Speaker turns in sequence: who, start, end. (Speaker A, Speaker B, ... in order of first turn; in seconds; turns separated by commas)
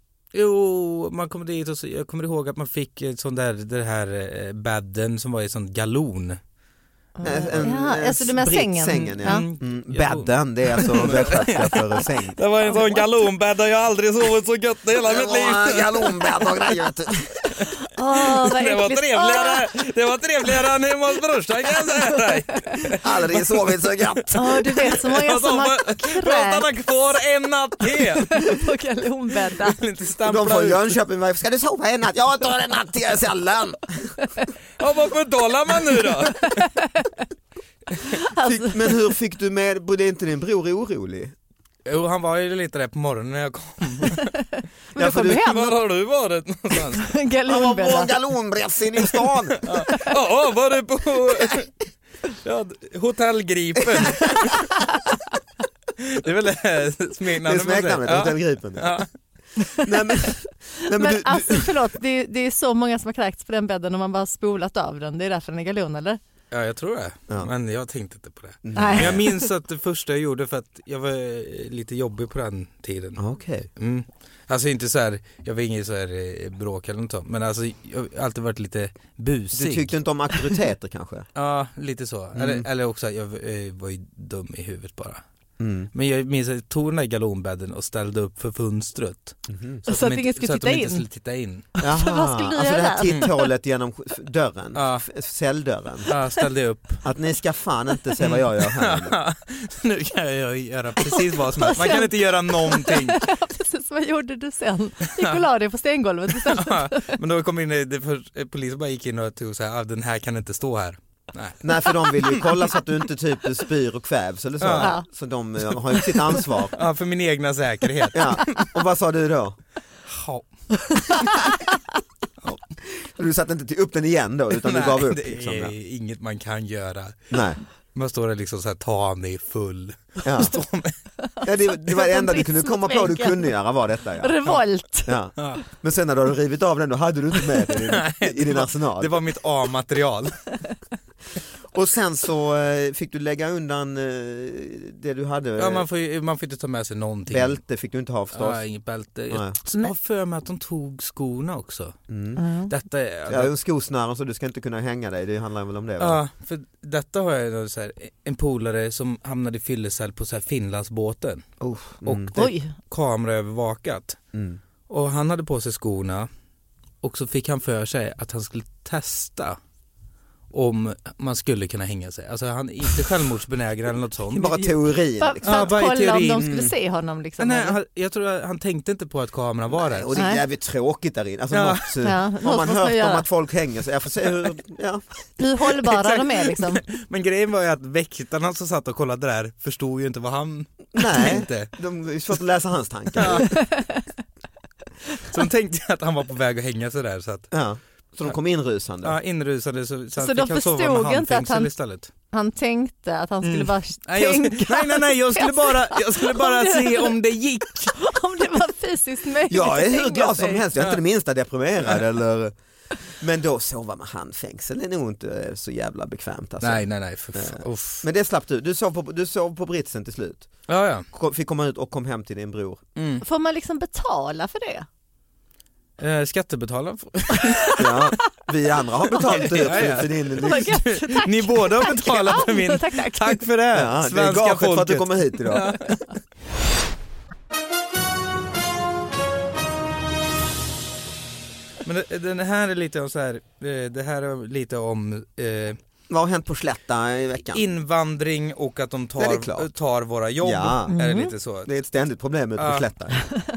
Speaker A: 0.3-6.4, Speaker B: 7.2-9.4, Speaker C: 7.2-12.4, Speaker A: 9.2-16.6, Speaker B: 12.6-13.0, Speaker C: 15.0-17.4, Speaker A: 17.6-23.5, Speaker B: 17.9-19.7, Speaker B: 21.8-22.9, Speaker C: 23.0-24.6, Speaker A: 24.1-28.6, Speaker B: 24.3-26.8, Speaker B: 27.9-29.8, Speaker A: 29.5-30.9, Speaker C: 30.2-34.1, Speaker A: 34.8-36.7, Speaker B: 36.3-37.2, Speaker B: 38.0-39.0, Speaker C: 38.4-41.3, Speaker A: 41.9-44.4, Speaker B: 44.9-45.7, Speaker C: 45.0-45.6, Speaker A: 45.3-47.1, Speaker B: 46.9-48.1, Speaker C: 47.5-49.6, Speaker A: 49.6-51.7, Speaker B: 49.7-50.1, Speaker A: 52.3-54.7, Speaker A: 56.0-59.1, Speaker C: 57.4-59.0, Speaker C: 59.8-61.7, Speaker B: 60.9-66.2, Speaker A: 66.5-73.2, Speaker C: 68.6-69.2, Speaker B: 68.7-69.5, Speaker C: 73.2-73.7, Speaker A: 73.8-79.9, Speaker C: 79.5-81.2, Speaker A: 81.3-85.2, Speaker C: 82.3-82.7, Speaker C: 85.6-85.9, Speaker A: 85.9-91.7, Speaker C: 89.5-89.8, Speaker B: 89.9-91.0, Speaker B: 91.8-93.5, Speaker C: 91.8-96.1, Speaker A: 94.7-95.0, Speaker A: 96.1-97.0, Speaker C: 97.0-99.2, Speaker A: 98.2-103.2, Speaker B: 101.0-107.2, Speaker A: 105.1-105.4, Speaker A: 106.3-112.7, Speaker C: 111.6-116.8, Speaker A: 114.6-114.9, Speaker A: 115.9-118.7, Speaker C: 118.1-119.6, Speaker A: 120.0-120.5, Speaker B: 120.9-121.7, Speaker A: 121.1-121.4, Speaker C: 122.8-125.7, Speaker A: 124.6-127.3, Speaker C: 127.3-127.6, Speaker A: 127.9-130.9, Speaker C: 130.2-130.6, Speaker C: 131.4-134.4, Speaker B: 131.9-133.5, Speaker B: 134.2-135.2, Speaker C: 135.1-139.1, Speaker A: 137.7-140.6, Speaker C: 141.7-145.9, Speaker A: 145.6-147.6, Speaker C: 147.3-148.6, Speaker A: 148.3-151.9, Speaker C: 149.3-149.6, Speaker C: 152.1-152.4, Speaker B: 152.3-152.7, Speaker A: 152.7-153.5, Speaker C: 153.3-156.2, Speaker A: 156.0-161.5, Speaker C: 161.6-162.3, Speaker A: 162.0-164.2, Speaker B: 162.3-162.7, Speaker C: 164.3-164.6, Speaker A: 164.9-166.3, Speaker A: 167.0-169.6, Speaker A: 170.5-174.7, Speaker C: 174.3-175.7, Speaker B: 175.2-177.8, Speaker A: 175.4-176.6, Speaker C: 176.4-176.7, Speaker A: 177.4-180.1, Speaker C: 179.7-185.0, Speaker B: 180.2-180.4, Speaker A: 181.5-182.0, Speaker B: 182.0-183.2, Speaker B: 185.4-186.8, Speaker A: 185.7-191.7, Speaker C: 190.9-193.6, Speaker A: 193.2-193.6, Speaker B: 193.4-194.1, Speaker A: 195.2-197.5, Speaker C: 197.5-199.2, Speaker A: 199.0-202.1, Speaker B: 200.2-201.7, Speaker B: 202.3-207.1, Speaker A: 203.4-208.0, Speaker B: 207.9-210.6, Speaker C: 209.5-212.5, Speaker C: 213.1-220.5, Speaker A: 216.6-218.1, Speaker A: 220.7-221.1, Speaker C: 221.1-222.8, Speaker A: 222.9-223.2, Speaker B: 223.2-224.9, Speaker A: 226.0-227.8, Speaker B: 227.4-228.3, Speaker C: 227.8-230.7, Speaker B: 229.1-233.4, Speaker A: 229.3-236.1, Speaker C: 233.7-235.7, Speaker A: 241.8-245.8, Speaker C: 246.1-247.6, Speaker A: 247.5-251.7, Speaker C: 249.2-249.7, Speaker C: 250.4-250.9, Speaker B: 250.9-251.3, Speaker C: 251.7-253.2, Speaker A: 252.6-252.8